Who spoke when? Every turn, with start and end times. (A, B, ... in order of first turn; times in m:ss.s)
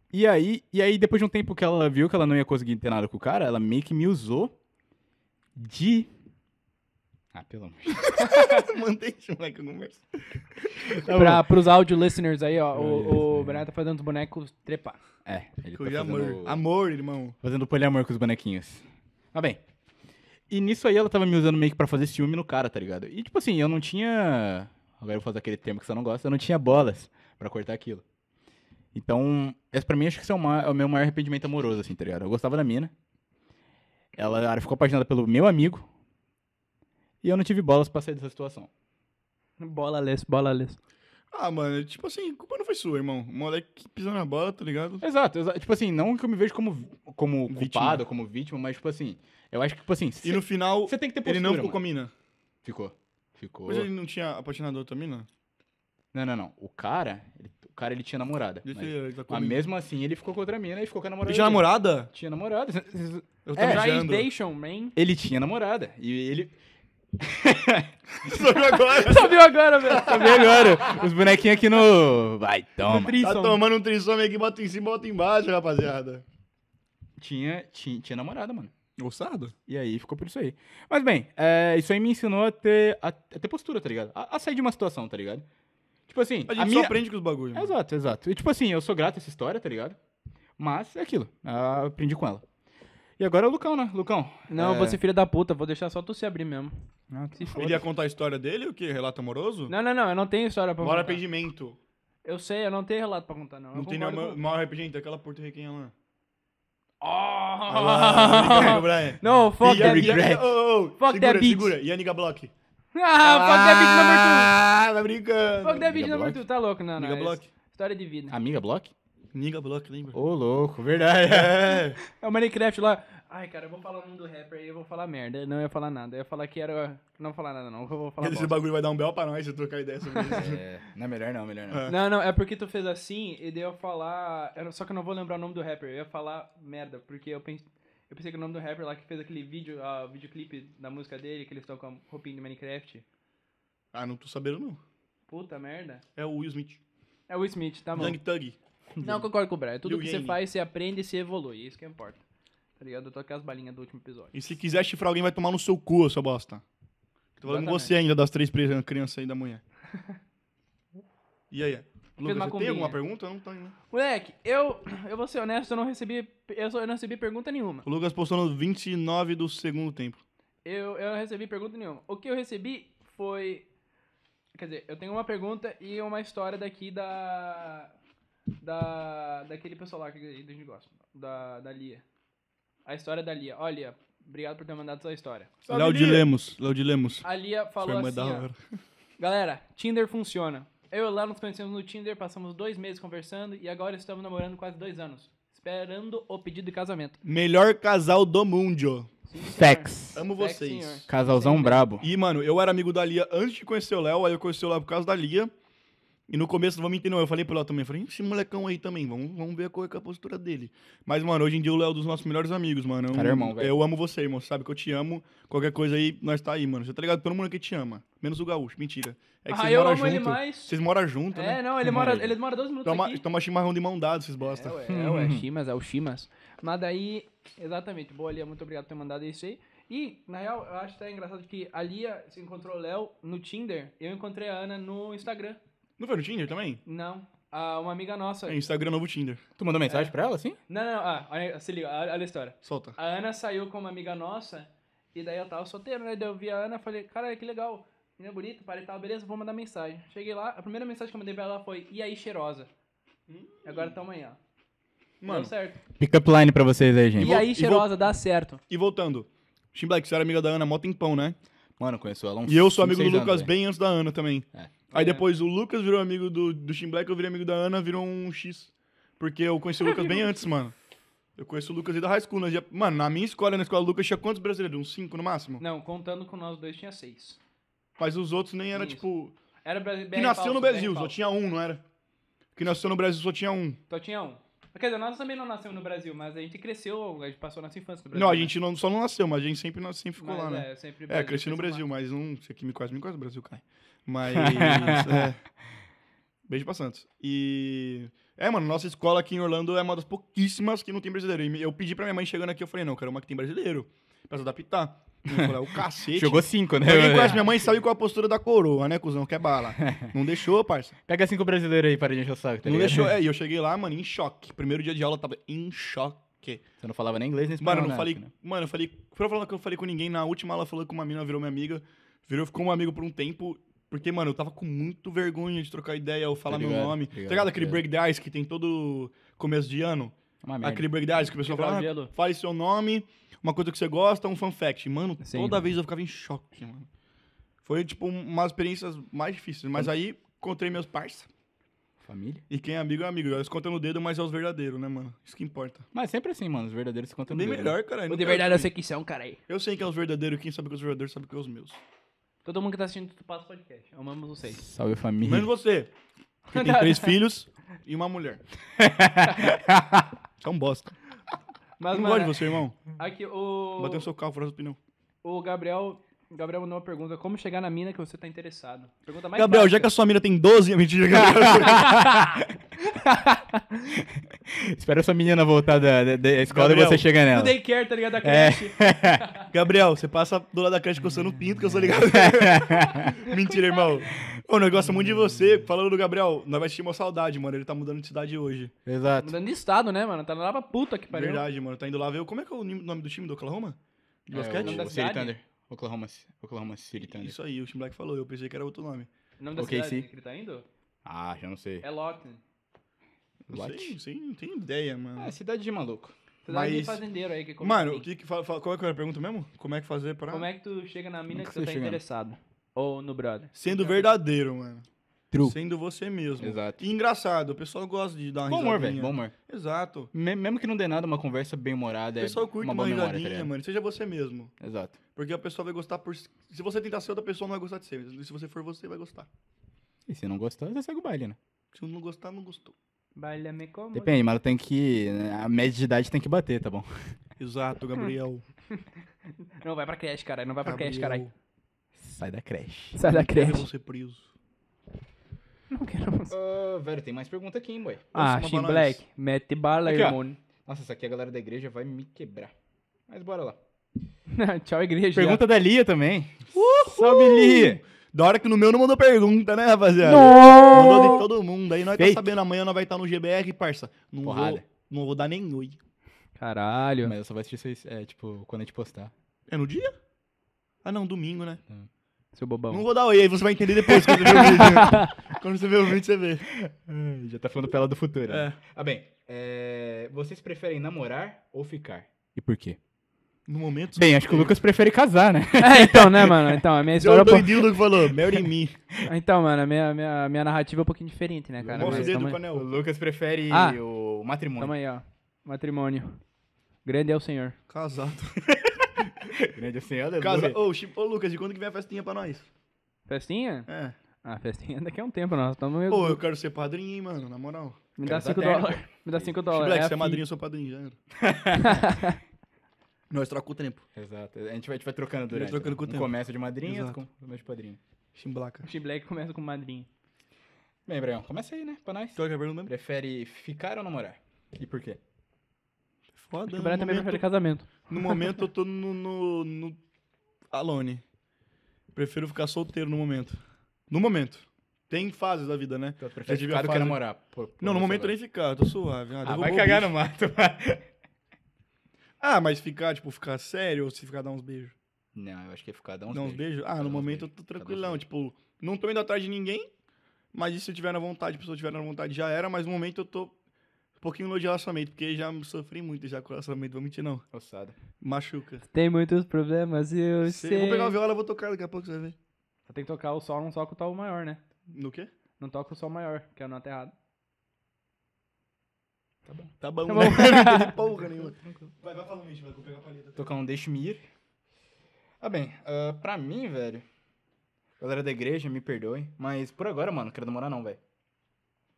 0:00.1-0:04.5 A
0:05.6-0:06.1 A
0:07.3-0:08.1 A
0:08.0-0:11.1 B
0:11.0-0:11.4 A
0:11.0-0:15.0 C
0:12.7-0:13.6 A
0:15.3-0:16.6 A
0:15.7-0:17.4 B
0:17.4-0:19.6 A
0:20.5-0:28.0 A
0:29.0-0:32.9 A
0:34.2-0:35.9 A
0:37.2-0:38.7 A
0:39.6-0:40.8 C
0:41.3-0:45.0 B
0:45.0-0:51.8 A
0:47.5-0:48.0 B
0:50.2-0:52.1 B
0:52.6-0:53.9 A
0:53.7-0:55.3 B
0:56.1-1:03.8 A
0:58.6-0:59.6 B
1:01.2-1:02.1 B
1:03.4-1:04.3 B
1:03.6-1:05.0 C
1:05.0-1:06.5 A
1:07.2-1:07.9 A
1:08.2-1:10.3 B
1:08.8-1:11.0 C
1:09.9-1:13.2 A
1:12.9-1:13.6 C
1:13.2-1:16.2 B
1:17.2-1:18.7 A
1:19.0-1:19.5 B
1:19.7-1:25.5 A
1:26.1-1:27.0 A
1:26.5-1:27.7 B
1:27.5-1:30.0 A
1:30.6-1:32.4 A
1:33.2-1:35.0 A
1:34.5-1:36.7 C
1:37.1-1:37.8 A
1:37.4-1:37.8 C
1:37.5-1:39.7 B
1:39.7-1:41.2 C
1:40.8-1:41.8 B
1:42.2-1:44.4 C
1:43.7-1:45.9 B
1:47.0-1:50.3 C
1:47.7-1:52.5 B
1:49.6-1:50.5 A
1:51.0-1:51.7 C
1:52.9-1:54.6 C
1:53.2-1:55.9 B
1:55.6-1:58.4 C
1:55.8-1:56.4 A
1:57.0-1:57.4 B
1:58.3-1:58.9 A
1:59.3-2:00.2 B
2:00.1-2:01.8 A
2:01.3-2:02.0 B
2:02.0-2:08.6 C
2:08.2-2:10.6 B
2:10.3-2:11.9 A
2:11.7-2:12.0 B
2:11.9-2:23.0 C
2:23.9-2:24.8 B
2:25.3-2:26.0 C
2:26.2-2:26.8 B
2:27.3-2:28.2 C
2:28.0-2:28.6 B
2:29.0-2:29.3 A
2:29.0-2:32.2 C
2:29.8-2:30.4 B
2:32.8-2:34.3 C
2:34.3-2:36.6 B
2:37.4-2:39.6 B
2:37.4-2:37.9 C
2:41.5-2:43.8 B
2:42.2-2:43.0 C
2:43.9-2:47.9 C
2:47.8-2:50.2 B
2:50.6-2:53.7 C
2:54.6-2:57.9 C
2:58.6-3:02.0 C
3:02.9-3:05.6 C
3:05.6-3:06.3 A
3:05.7-3:07.3 B
3:07.2-3:08.5 C
3:07.8-3:08.6 B
3:09.2-3:17.2 C
3:17.2-3:19.1 B
3:19.3-3:21.9 C
3:19.4-3:20.2 A
3:20.2-3:21.1 B
3:21.1-3:22.1 A
3:22.0-3:25.5 B
3:26.3-3:41.6 B
3:33.1-3:33.8 A
3:39.5-3:40.8 C
3:41.3-3:43.2 C
3:41.8-3:42.3 A
3:42.8-3:44.8 B
3:44.4-3:55.6 C
3:44.9-3:45.4 A
3:56.0-3:56.8 B
3:56.9-3:58.6 C
3:58.5-3:59.4 B
3:59.6-4:00.6 A
3:59.9-4:00.1 C
4:00.7-4:12.7 C
4:02.6-4:03.0 B
4:13.3-4:14.0 B
4:13.6-4:14.4 C
4:15.2-4:15.5 B
4:15.2-4:15.8 C
4:16.0-4:17.4 A
4:17.2-4:18.6 C
4:17.2-4:17.9 B
4:18.7-4:21.4 B
4:21.8-4:23.5 A
4:22.5-4:30.7 B
4:24.9-4:25.2 C
4:29.8-4:30.4 C
4:31.4-4:35.6 B
4:35.6-4:37.4 C
4:38.0-4:39.4 B
4:38.7-4:39.0 C
4:39.6-4:41.1 C
4:40.1-4:41.8 B
4:42.6-4:43.8 B
4:43.9-4:48.5 C
4:48.1-4:55.4 B
4:50.2-4:51.8 C
4:54.3-4:55.3 A
4:56.5-5:11.0 B
5:06.1-5:07.4 A
5:09.8-5:10.1 A
5:11.1-5:13.2 A
5:12.6-5:16.6 B
5:16.8-5:18.3 A
5:17.6-5:36.9 B
5:26.5-5:27.8 A
5:30.4-5:30.9 A
5:31.3-5:32.1 C
5:35.2-5:35.6 C
5:37.6-5:41.3 B
5:42.0-5:42.4 A
5:42.5-5:45.8 B
5:45.9-5:47.8 A
5:47.3-5:48.7 B
5:48.1-5:49.4 C
5:49.5-5:51.8 B
5:52.4-5:54.6 C
5:54.5-5:55.5 A
5:55.2-5:55.9 B
5:56.5-5:58.4 B
5:56.5-5:57.2 C
5:58.8-6:00.2 A
6:00.4-6:01.0 B
6:01.8-6:04.1 C
6:01.9-6:02.8 B
6:03.8-6:04.8 B
6:05.2-6:09.9 C
6:09.4-6:12.0 B
6:11.2-6:12.5 A
6:11.6-6:13.8 C
6:13.9-6:17.6 A
6:16.5-6:17.1 B
6:17.3-6:19.5 C
6:18.2-6:19.2 A
6:19.5-6:28.7 B
6:21.7-6:23.2 A
6:23.2-6:23.8 C
6:24.8-6:25.6 A
6:28.9-6:29.3 A
6:29.2-6:31.4 C
6:31.1-6:34.9 B
6:34.3-6:37.4 A
6:34.5-6:35.3 C
6:37.0-6:39.1 B
6:39.4-6:40.7 C
6:39.6-6:40.0 A
6:41.0-6:41.8 A
6:41.8-6:42.4 C
6:43.5-6:45.3 B
6:43.5-6:44.0 A
6:45.2-6:46.2 A
6:46.4-6:48.1 C
6:46.5-6:47.0 B
6:47.6-6:50.5 B
6:50.3-6:54.2 C
6:51.3-6:52.0 A
6:53.6-6:54.8 B
6:55.3-6:55.6 A
6:55.4-7:00.1 B
6:56.4-6:56.8 A
6:58.5-6:59.3 A
7:00.1-7:03.5 A
7:02.2-7:04.5 B
7:04.6-7:05.0 A
7:05.2-7:09.3 B
7:10.1-7:11.4 A
7:11.7-7:12.8 B
7:13.2-7:14.2 C
7:13.9-7:16.9 A
7:17.4-7:18.4 B
7:19.6-7:21.2 C
7:20.6-7:21.3 B
7:22.0-7:23.0 A
7:23.0-7:23.7 C
7:23.0-7:24.3 B
7:25.7-7:26.3 C
7:26.3-7:28.1 A
7:28.1-7:29.0 B
7:28.1-7:30.4 C
7:29.9-7:32.5 A
7:33.1-7:33.6 A
7:34.3-7:35.4 C
7:35.1-7:37.8 A
7:36.5-7:45.8 B
7:40.0-7:41.3 C
7:42.0-7:42.2 A
7:44.2-7:44.6 A
7:46.4-7:47.1 C
7:47.0-7:49.1 A
7:49.5-7:49.9 B
7:50.8-7:51.6 B
7:52.4-7:52.8 C
7:52.7-7:56.5 B
7:54.4-7:55.0 A
7:54.5-7:55.1 C
7:56.5-8:02.8 A
7:58.3-7:58.6 B
8:03.5-8:04.6 B
8:04.0-8:06.6 A
8:05.6-8:07.8 C
8:07.0-8:08.8 B
8:09.1-8:12.4 C
8:11.6-8:14.7 A
8:11.7-8:12.7 B
8:13.5-8:13.8 C
8:14.6-8:16.2 C
8:16.8-8:17.6 C
8:17.7-8:18.4 B
8:18.4-8:20.6 A
8:20.2-8:22.5 B
8:23.1-8:23.7 C
8:23.7-8:24.0 B
8:24.2-8:26.2 C
8:25.9-8:27.8 B
8:28.0-8:30.2 C
8:28.0-8:29.4 A
8:29.5-8:31.0 B
8:31.2-8:31.8 A
8:31.6-8:32.2 C
8:33.1-8:33.8 B
8:34.0-8:37.8 A
8:35.3-8:36.1 B
8:36.6-8:37.0 B
8:38.2-8:38.7 B
8:38.6-8:39.9 C
8:40.9-8:45.0 A
8:42.2-8:42.7 B
8:46.1-8:47.2 B
8:46.5-8:48.3 C
8:47.9-8:49.8 B
8:50.5-8:51.0 B
8:51.9-8:53.4 B
8:53.9-8:57.0 B
8:56.0-8:58.2 A
8:57.6-8:59.9 B
8:59.2-9:00.9 A
9:02.2-9:04.8 B
9:05.2-9:08.0 A
9:06.1-9:09.7 B
9:10.3-9:13.3 B
9:14.0-9:17.2 B
9:17.3-9:17.8 A
9:18.0-9:18.6 B
9:18.7-9:21.0 C
9:20.3-9:22.2 B
9:22.7-9:24.4 C
9:24.7-9:25.1 B
9:25.4-9:26.9 C
9:29.3-9:29.5 A
9:29.6-9:33.3 B
9:29.9-9:30.8 C
9:31.4-9:31.7 A
9:33.2-9:34.0 A
9:35.2-9:36.8 A
9:37.8-9:40.8 A